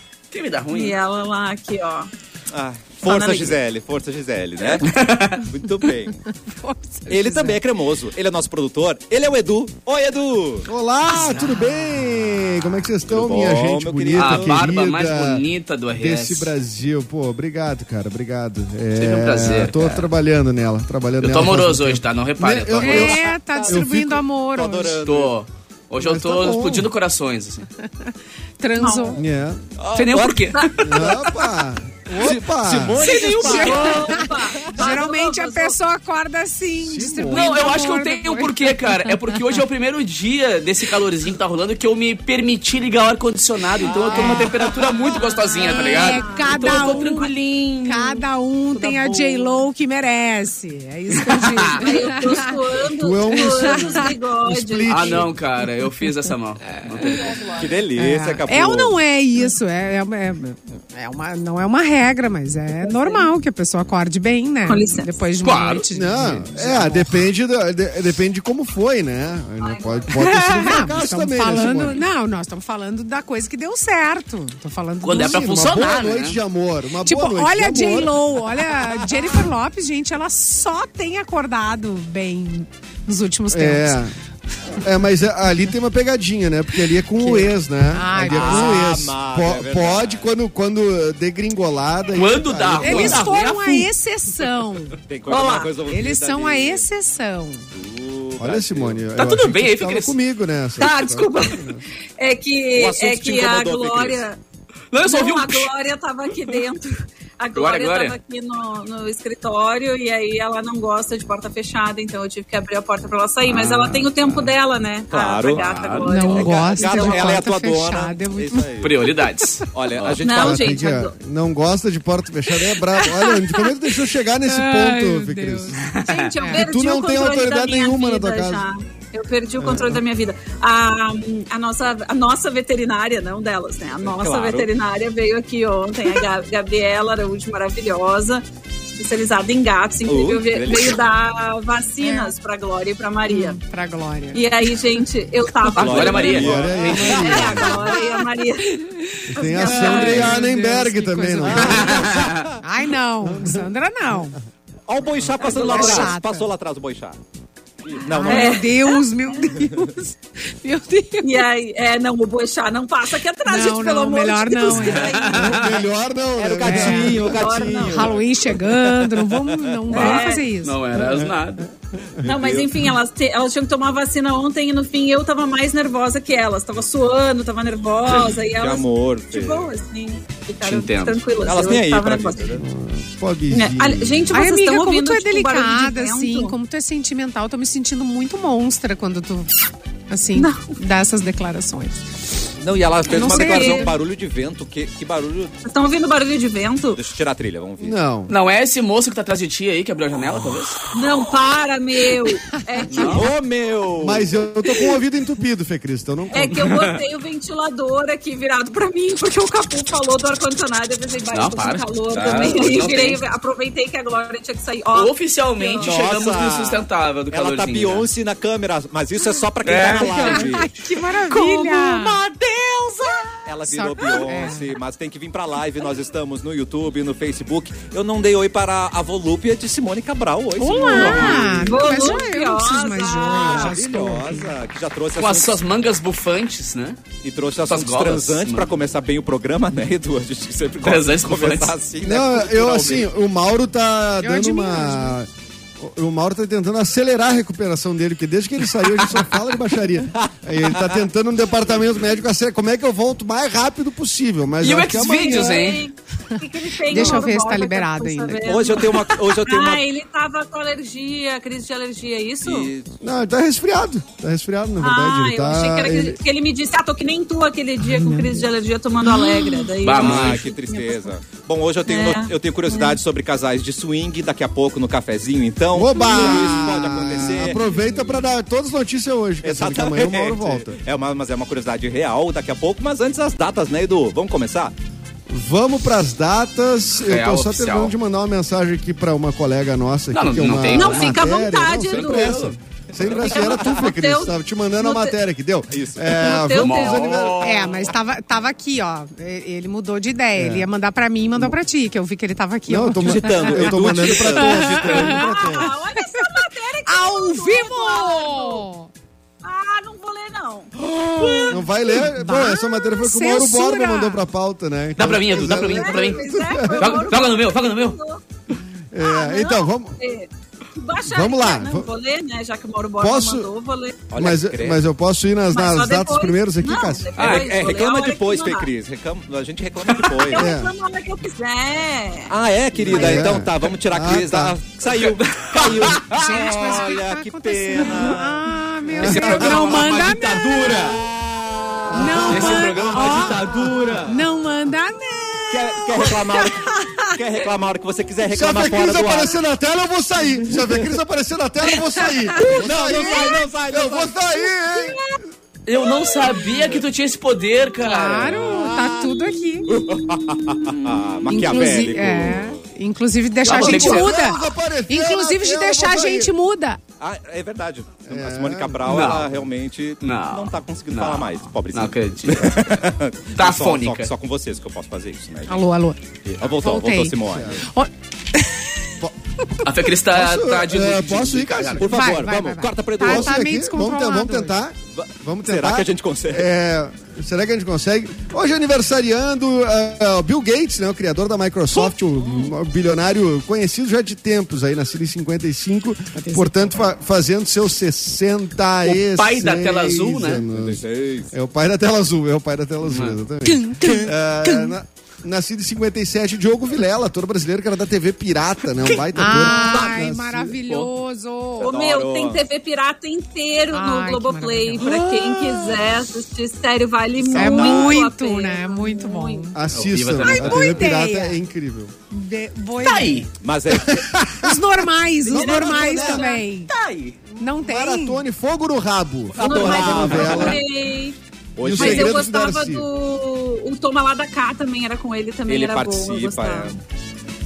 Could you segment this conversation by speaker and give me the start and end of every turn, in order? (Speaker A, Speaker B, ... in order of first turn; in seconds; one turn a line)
Speaker A: 0.3-1.0
Speaker B: 0.7-2.1
Speaker C: 2.5-4.9
Speaker B: 3.0-3.6
Speaker A: 4.8-5.4
Speaker C: 5.5-6.1
Speaker D: 6.3-7.6
Speaker C: 7.1-10.7
Speaker E: 10.7-15.4
Speaker A: 11.1-11.7
Speaker C: 13.1-14.6
Speaker A: 14.1-16.5
Speaker E: 15.9-24.2
Speaker A: 18.9-20.1
Speaker A: 21.2-23.2
Speaker D: 22.8-25.0
Speaker C: 23.3-23.8
Speaker C: 24.5-25.3
Speaker A: 25.0-27.6
Speaker E: 26.0-26.9
Speaker D: 27.8-29.2
Speaker B: 28.8-29.2
Speaker E: 29.1-29.6
Speaker C: 29.8-30.5
Speaker A: 29.9-31.5
Speaker E: 30.8-33.0
Speaker C: 32.2-34.4
Speaker A: 32.3-34.2
Speaker D: 33.0-39.5
Speaker B: 33.1-35.8
Speaker E: 36.8-37.6
Speaker A: 37.3-48.2
Speaker C: 43.8-44.8
Speaker D: 44.1-44.5
Speaker B: 45.2-47.3
Speaker D: 45.6-47.3
Speaker D: 47.8-52.5
Speaker A: 48.7-49.6
Speaker A: 51.1-51.8
Speaker B: 51.8-55.2
Speaker E: 53.0-55.4
Speaker D: 53.4-54.1
Speaker A: 54.9-57.5
Speaker D: 56.7-57.3
Speaker C: 57.5-59.0
Speaker D: 58.0-67.2
Speaker B: 64.7-65.2
Speaker A: 65.4-65.8
Speaker E: 65.9-72.0
Speaker B: 69.6-70.1
Speaker D: 70.1-75.4
Speaker A: 75.0-76.4
Speaker E: 75.2-78.2
Speaker D: 77.0-84.0
Speaker E: 83.5-84.1
Speaker E: 84.8-93.2
Speaker D: 87.2-88.9
Speaker C: 88.3-90.3
Speaker A: 92.1-93.9
Speaker D: 92.8-95.0
Speaker C: 95.1-96.8
Speaker B: 95.3-95.7
Speaker A: 95.3-95.7
Speaker D: 95.8-97.7
Speaker C: 97.7-99.0
Speaker E: 98.4-101.8
Speaker A: 99.2-100.2
Speaker B: 100.8-101.6
Speaker B: 102.2-104.4
Speaker C: 102.7-104.2
Speaker A: 104.9-105.7
Speaker B: 105.0-117.4
Speaker A: 107.5-108.2
Speaker E: 113.4-114.5
Speaker C: 115.1-119.0
Speaker A: 115.6-116.3
Speaker D: 116.0-119.6
Speaker A: 118.8-120.2
Speaker C: 119.7-120.8
Speaker B: 120.2-121.1
Speaker E: 120.3-125.8
Speaker D: 122.8-125.8
Speaker A: 125.8-126.3
Speaker B: 126.1-143.6
Speaker D: 126.4-126.7
Speaker E: 126.5-128.6
Speaker E: 129.6-130.0
Speaker C: 134.0-134.7
Speaker C: 140.0-141.0
Speaker D: 142.0-142.3
Speaker D: 143.2-144.4
Speaker B: 144.3-148.8
Speaker A: 145.7-147.7
Speaker C: 145.8-147.4
Speaker E: 146.3-147.8
Speaker D: 147.7-152.0
Speaker E: 149.3-151.9
Speaker B: 149.4-150.1
Speaker C: 149.9-150.3
Speaker C: 151.5-152.6
Speaker A: 151.8-152.4
Speaker D: 152.6-154.4
Speaker E: 153.2-153.7
Speaker C: 154.9-157.2
Speaker D: 155.4-156.5
Speaker B: 155.4-156.1
Speaker C: 157.8-158.6
Speaker D: 158.1-161.4
Speaker B: 158.2-159.5
Speaker B: 161.2-165.7
Speaker D: 163.4-165.3
Speaker A: 164.7-165.8
Speaker E: 165.3-167.7
Speaker C: 166.3-169.7
Speaker D: 166.6-167.3
Speaker B: 167.3-168.1
Speaker D: 167.8-170.8
Speaker B: 169.9-170.5
Speaker A: 169.9-171.7
Speaker E: 170.9-171.6
Speaker B: 172.2-182.5
Speaker C: 172.2-172.7
Speaker C: 178.1-179.7
Speaker A: 180.6-181.2
Speaker C: 181.4-182.6
Speaker E: 182.6-184.4
Speaker B: 183.5-186.5
Speaker D: 184.3-189.5
Speaker D: 190.1-192.0
Speaker B: 190.3-190.6
Speaker C: 192.6-195.5
Speaker B: 193.1-193.9
Speaker D: 193.1-193.9
Speaker B: 195.6-197.0
Speaker C: 196.9-197.9
Speaker E: 197.8-198.3
Speaker A: 198.3-200.8
Speaker B: 200.9-203.3
Speaker A: 202.9-203.3
Speaker C: 203.1-204.4
Speaker E: 204.0-206.5
Speaker B: 206.3-216.0
Speaker A: 206.4-207.0
Speaker A: 211.3-213.2
Speaker C: 212.4-213.0
Speaker A: 214.9-218.1
Speaker C: 215.8-220.7
Speaker A: 219.6-220.7
Speaker D: 219.9-222.2
Speaker A: 221.3-223.1
Speaker C: 223.4-232.0
Speaker D: 223.6-224.7
Speaker D: 230.6-234.5
Speaker A: 230.8-231.7
Speaker B: 230.9-233.7
Speaker C: 233.3-235.6
Speaker A: 235.2-237.0
Speaker C: 237.2-243.1
Speaker A: 237.7-238.7
Speaker A: 240.8-241.8
Speaker E: 242.0-255.7
Speaker D: 244.2-245.2
Speaker C: 250.2-250.9
Speaker A: 254.6-255.8
Speaker B: 255.1-262.7
Speaker D: 256.3-259.0
Speaker C: 258.4-259.8
Speaker C: 262.4-262.9
Speaker E: 263.0-266.2
Speaker B: 264.8-271.1
Speaker E: 268.0-268.3
Speaker D: 268.0-268.4
Speaker A: 269.8-270.5
Speaker C: 269.9-277.6
Speaker B: 271.8-273.0
Speaker E: 275.7-280.8
Speaker B: 276.1-276.9
Speaker C: 279.4-284.7
Speaker E: 285.3-297.5
Speaker A: 287.0-287.9
Speaker A: 290.1-292.6
Speaker B: 290.7-292.4
Speaker C: 292.9-293.6
Speaker B: 293.1-295.2
Speaker C: 295.7-296.2
Speaker B: 296.1-297.4
Speaker A: 296.5-297.8
Speaker D: 297.4-308.9
Speaker E: 300.4-300.7
Speaker E: 302.7-305.8
Speaker C: 303.0-305.1
Speaker B: 304.9-308.6
Speaker B: 309.4-311.7
Speaker C: 310.8-311.5
Speaker E: 311.5-317.0
Speaker D: 311.9-314.2
Speaker A: 314.9-318.0
Speaker B: 315.6-318.2
Speaker E: 318.9-319.9
Speaker B: 319.0-324.1
Speaker E: 321.0-321.9
Speaker E: 323.0-323.5
Speaker C: 324.1-324.8
Speaker E: 324.2-327.1
Speaker B: 325.5-328.7
Speaker A: 327.2-327.5
Speaker C: 327.2-330.5
Speaker B: 330.1-332.3
Speaker E: 330.3-330.7
Speaker C: 332.3-338.5
Speaker E: 332.8-334.6
Speaker A: 334.8-336.1
Speaker D: 336.1-341.0
Speaker E: 338.9-339.5
Speaker A: 339.0-341.0
Speaker C: 339.2-344.2
Speaker E: 341.9-342.6
Speaker D: 341.9-347.2
Speaker A: 342.3-344.1
Speaker C: 345.5-349.4
Speaker E: 348.2-355.0
Speaker C: 350.6-350.9
Speaker C: 352.4-354.2
Speaker B: 354.8-355.1
Speaker A: 355.6-358.8
Speaker B: 356.1-356.4
Speaker D: 357.8-359.7
Speaker C: 358.5-362.6
Speaker B: 359.0-361.0
Speaker D: 361.3-366.8
Speaker A: 363.4-364.1
Speaker E: 363.4-366.3
Speaker C: 367.0-375.6
Speaker E: 368.1-369.2
Speaker A: 368.9-369.3
Speaker A: 370.0-372.7
Speaker A: 373.4-374.1
Speaker D: 375.5-378.9
Speaker C: 376.2-377.6
Speaker E: 377.2-377.6
Speaker E: 379.0-381.9
Speaker A: 379.6-381.8
Speaker C: 381.8-383.4
Speaker D: 381.8-384.6
Speaker E: 383.0-410.6
Speaker C: 384.9-386.5
Speaker D: 396.1-396.7
Speaker A: 398.8-400.4
Speaker C: 400.4-401.3
Speaker A: 402.8-403.2
Speaker D: 403.4-404.7
Speaker A: 408.8-409.8
Speaker D: 409.1-411.7
Speaker C: 411.6-412.4
Speaker B: 411.6-419.5
Speaker D: 413.7-414.9
Speaker A: 414.9-415.8
Speaker C: 417.2-418.0
Speaker D: 417.3-419.6
Speaker E: 419.5-421.9
Speaker A: 419.7-420.7
Speaker D: 420.2-421.4
Speaker D: 422.1-423.3
Speaker A: 422.8-423.3
Speaker C: 423.4-424.1
Speaker E: 423.7-426.3
Speaker D: 424.4-426.7
Speaker B: 425.2-426.4
Speaker A: 426.7-427.2
Speaker D: 427.4-428.2
Speaker E: 427.4-430.6
Speaker C: 429.3-430.6
Speaker B: 429.4-431.2
Speaker C: 431.6-432.2
Speaker E: 431.6-432.9
Speaker B: 431.7-436.7
Speaker C: 435.5-436.8